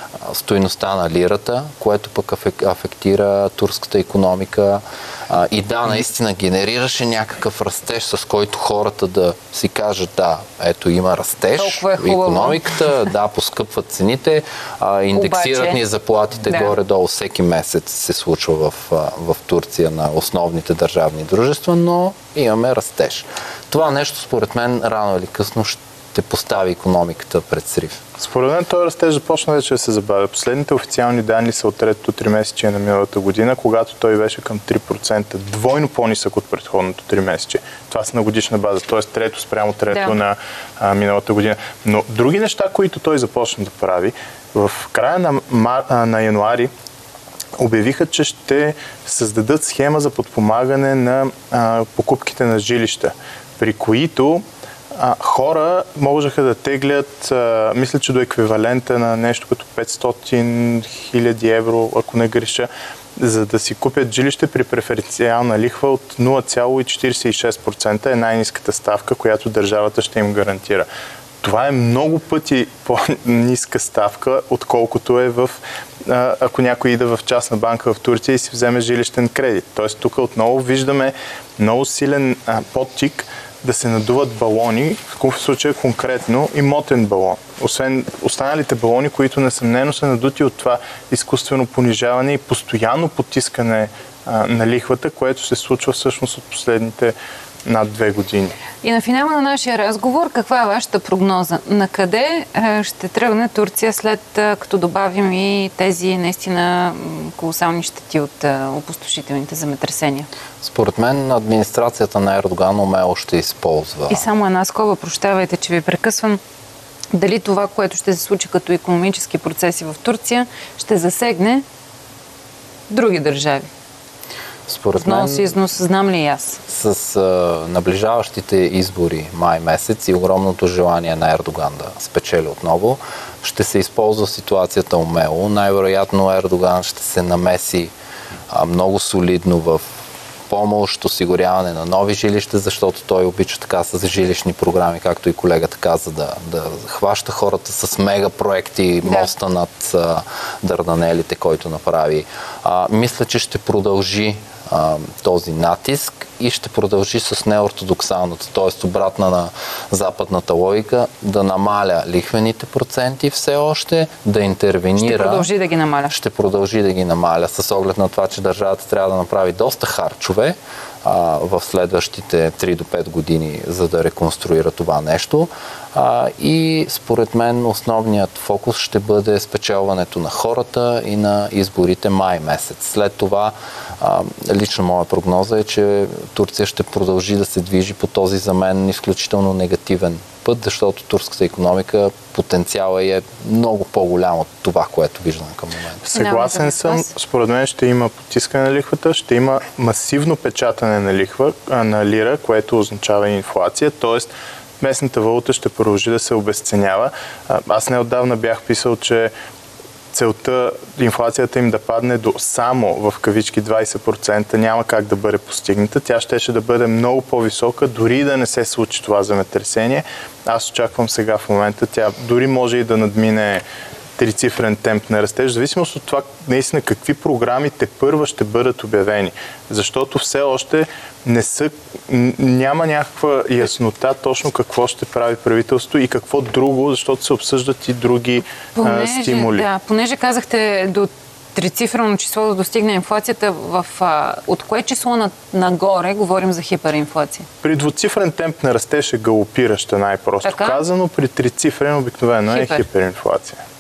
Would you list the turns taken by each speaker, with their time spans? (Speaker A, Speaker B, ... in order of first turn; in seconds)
Speaker A: 0.2-28.0, 110.6-114.2, 124.7-125.5, 126.7-137.9, 138.5-165.5, 166.1-196.0
Speaker B: 11.6-13.1, 15.1-15.8, 16.4-16.8, 39.9-40.2, 98.8-110.3, 114.1-116.4, 117.1-121.6, 122.9-123.7, 125.0-126.6, 149.0-149.3, 165.0-166.2, 196.0-197.1, 238.8-247.5, 250.4-250.8, 252.5-252.9
Speaker C: 28.2-46.7, 47.6-70.9, 71.4-98.6, 196.1-209.3, 210.1-223.6, 224.2-239.7, 247.6-253.6